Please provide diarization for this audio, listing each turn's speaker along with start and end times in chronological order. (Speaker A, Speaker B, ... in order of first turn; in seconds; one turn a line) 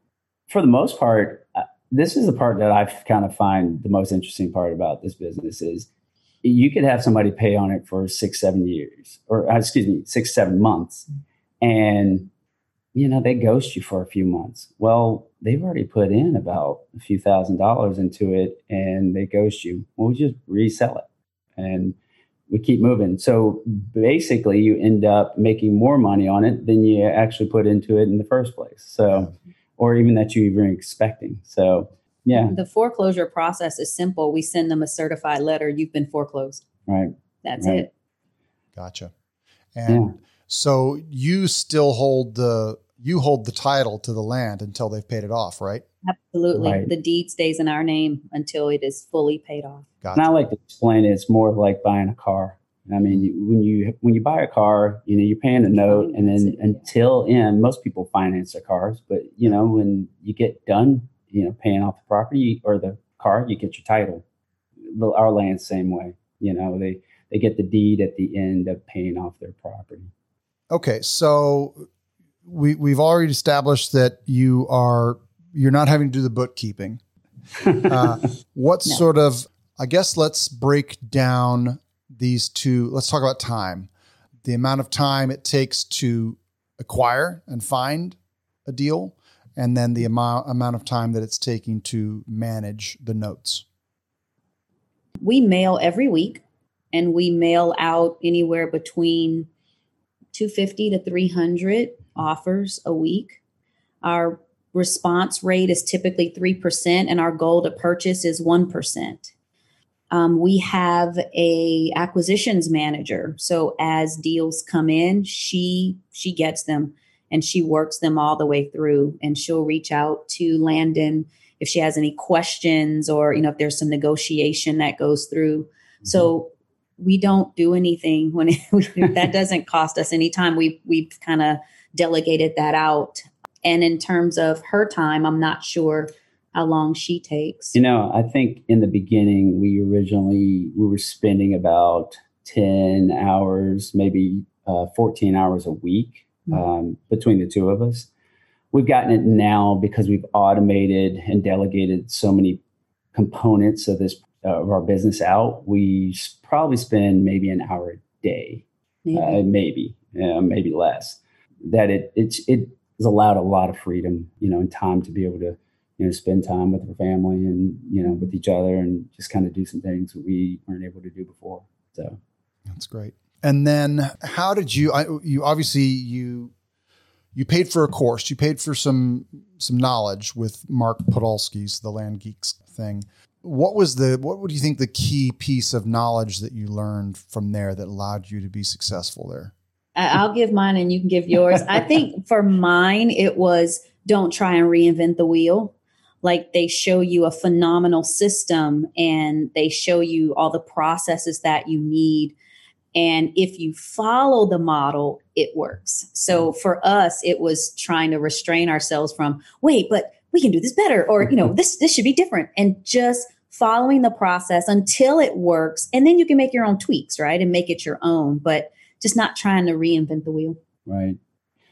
Speaker A: 0.5-5.9
Speaker A: 6.4-11.1
Speaker A: 11.6-12.3
Speaker A: 12.9-21.1
Speaker A: 21.6-21.9
Speaker A: 22.5-32.5
Speaker B: 32.3-36.6
Speaker A: 36.9-37.9
Speaker B: 37.4-37.9
Speaker C: 38.8-39.1
Speaker C: 39.7-45.8
Speaker A: 39.9-40.1
Speaker B: 46.0-49.9
Speaker A: 46.5-46.9
Speaker A: 50.1-64.2
Speaker B: 55.8-56.8
Speaker A: 64.8-70.1
Speaker C: 70.7-71.8
Speaker C: 72.4-77.0
Speaker C: 77.8-83.9
Speaker C: 84.4-93.6
Speaker B: 95.2-96.4
Speaker B: 96.9-99.5
Speaker B: 100.3-103.4
Speaker B: 104.0-109.3
Speaker B: 110.1-137.8
Speaker A: 137.7-148.1
Speaker A: 148.7-152.6
Speaker A: 153.1-172.2
Speaker B: 159.1-159.4
Speaker C: 172.7-176.5
Speaker C: 177.3-189.5
Speaker B: 189.9-202.3
Speaker B: 202.9-220.6
Speaker A: 220.9-221.2